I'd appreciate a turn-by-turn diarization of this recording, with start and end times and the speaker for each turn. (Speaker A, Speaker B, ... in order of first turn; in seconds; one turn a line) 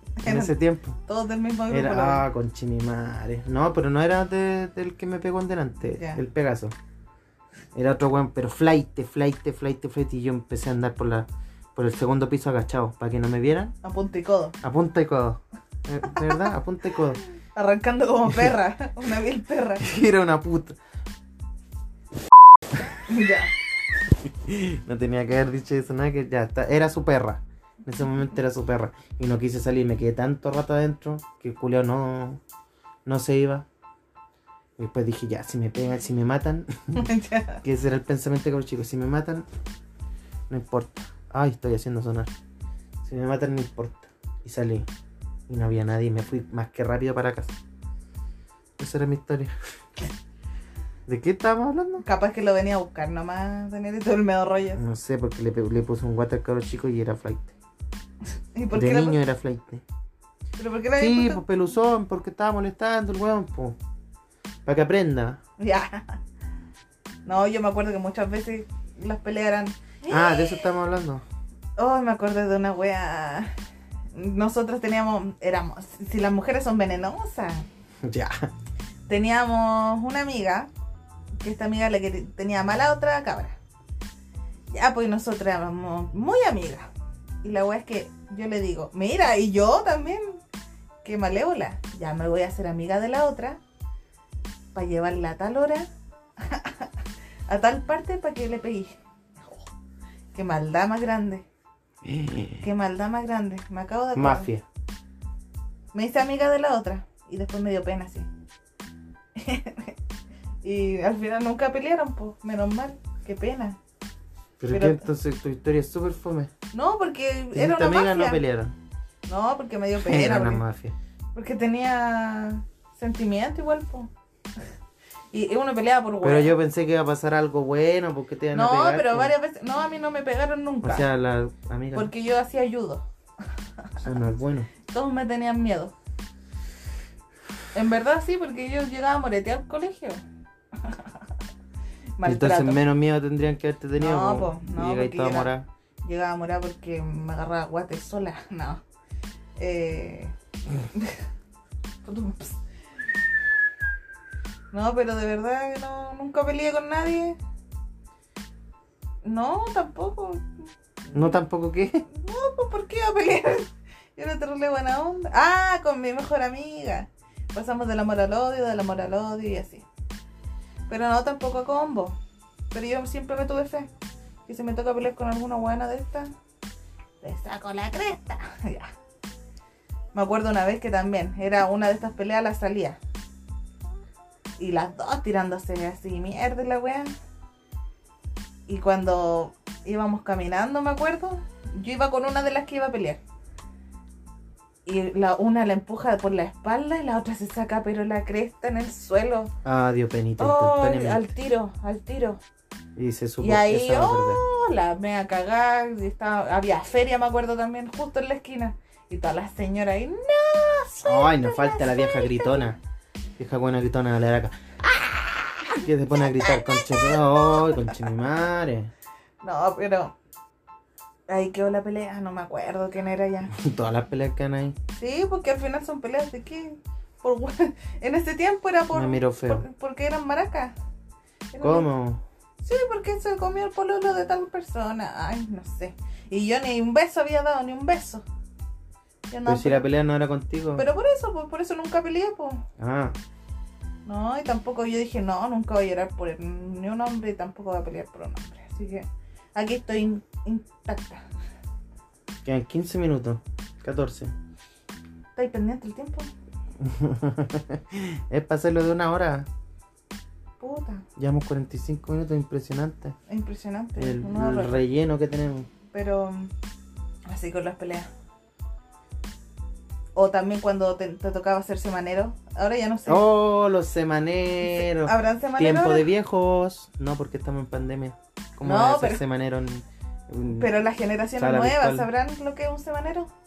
Speaker A: 0.2-0.5
Speaker B: 0.2-1.0
Speaker A: 1.1-2.2
Speaker B: 1.7-6.7
Speaker A: 6.0-6.2
Speaker B: 7.7-13.7
Speaker A: 13.8-14.6
Speaker B: 14.6-17.2
Speaker A: 16.2-16.5
Speaker A: 17.5-19.8
Speaker B: 18.3-18.5
Speaker B: 19.8-20.8
Speaker A: 23.1-23.5
Speaker B: 24.1-32.4
Speaker B: 33.0-33.6
Speaker B: 34.8-37.1
Speaker A: 36.9-37.6
Speaker B: 37.6-39.5
Speaker B: 40.5-42.3
Speaker B: 43.0-44.9
Speaker B: 45.5-47.5
Speaker B: 48.8-49.5
Speaker B: 51.1-52.0
Speaker A: 52.0-54.8
Speaker B: 54.8-57.5
Speaker A: 58.5-59.2
Speaker B: 58.7-59.8
Speaker A: 60.6-61.4
Speaker B: 61.0-63.8
Speaker B: 64.7-65.4
Speaker A: 65.6-66.2
Speaker A: 67.2-70.7
Speaker B: 70.1-71.2
Speaker A: 71.8-73.5
Speaker A: 74.1-77.7
Speaker B: 78.0-78.5
Speaker A: 79.1-80.7
Speaker A: 81.4-83.5
Speaker A: 84.7-86.9
Speaker A: 87.4-90.4
Speaker A: 91.0-93.6
Speaker A: 94.7-95.9
Speaker A: 96.4-96.9
Speaker A: 97.5-99.6
Speaker A: 100.3-101.4
Speaker B: 102.0-102.6
Speaker A: 102.6-104.5
Speaker B: 104.1-104.6
Speaker A: 105.9-108.3
Speaker A: 109.3-109.9
Speaker A: 110.6-113.8
Speaker B: 114.6-116.5
Speaker A: 114.7-115.0
Speaker A: 116.7-118.4
Speaker B: 117.5-118.7
Speaker A: 119.3-120.6
Speaker B: 120.0-120.9
Speaker A: 121.3-124.1
Speaker A: 125.3-126.5
Speaker B: 126.2-129.3
Speaker A: 128.5-131.1
Speaker B: 130.8-132.1
Speaker A: 131.9-133.0
Speaker B: 134.0-134.7
Speaker A: 134.8-135.9
Speaker A: 137.7-140.2
Speaker A: 140.8-141.2
Speaker A: 142.2-142.8
Speaker B: 142.2-145.7
Speaker A: 144.0-145.5
Speaker A: 146.0-148.8
Speaker A: 149.6-150.3
Speaker A: 150.9-151.2
Speaker A: 152.0-152.6
Speaker A: 154.7-157.3
Speaker A: 159.2-160.5
Speaker A: 161.1-161.4
Speaker B: 161.1-162.0
Speaker A: 162.1-169.8
Speaker A: 170.9-172.2
Speaker A: 172.7-173.9
Speaker A: 174.5-176.3
Speaker A: 177.2-178.9
Speaker A: 180.1-183.0
Speaker A: 184.6-187.1
Speaker A: 188.7-193.2
Speaker A: 194.8-199.5
Speaker B: 199.6-201.3
Speaker A: 200.4-202.4
Speaker B: 202.9-204.4
Speaker A: 203.4-212.7
Speaker B: 211.0-212.8
Speaker B: 213.4-214.5
Speaker A: 215.0-218.0
Speaker B: 215.8-218.9
Speaker A: 219.4-220.1
Speaker A: 221.3-223.5
Speaker B: 223.5-224.8
Speaker A: 224.9-230.7
Speaker B: 228.9-229.6
Speaker A: 231.5-231.9
Speaker B: 231.6-232.2
Speaker A: 232.6-238.2
Speaker A: 239.3-239.8
Speaker B: 239.4-240.8
Speaker A: 240.8-242.6
Speaker B: 242.8-243.2
Speaker A: 244.1-251.2
Speaker B: 252.4-254.3
Speaker A: 255.3-256.3
Speaker B: 256.8-259.5
Speaker A: 260.6-261.0
Speaker B: 261.2-263.1
Speaker A: 263.3-264.8
Speaker B: 264.0-265.7
Speaker A: 265.9-266.5
Speaker A: 267.3-268.1
Speaker A: 270.1-273.2
Speaker B: 273.1-280.7
Speaker A: 274.6-276.1
Speaker A: 278.6-279.2
Speaker A: 280.5-283.3
Speaker B: 281.4-282.1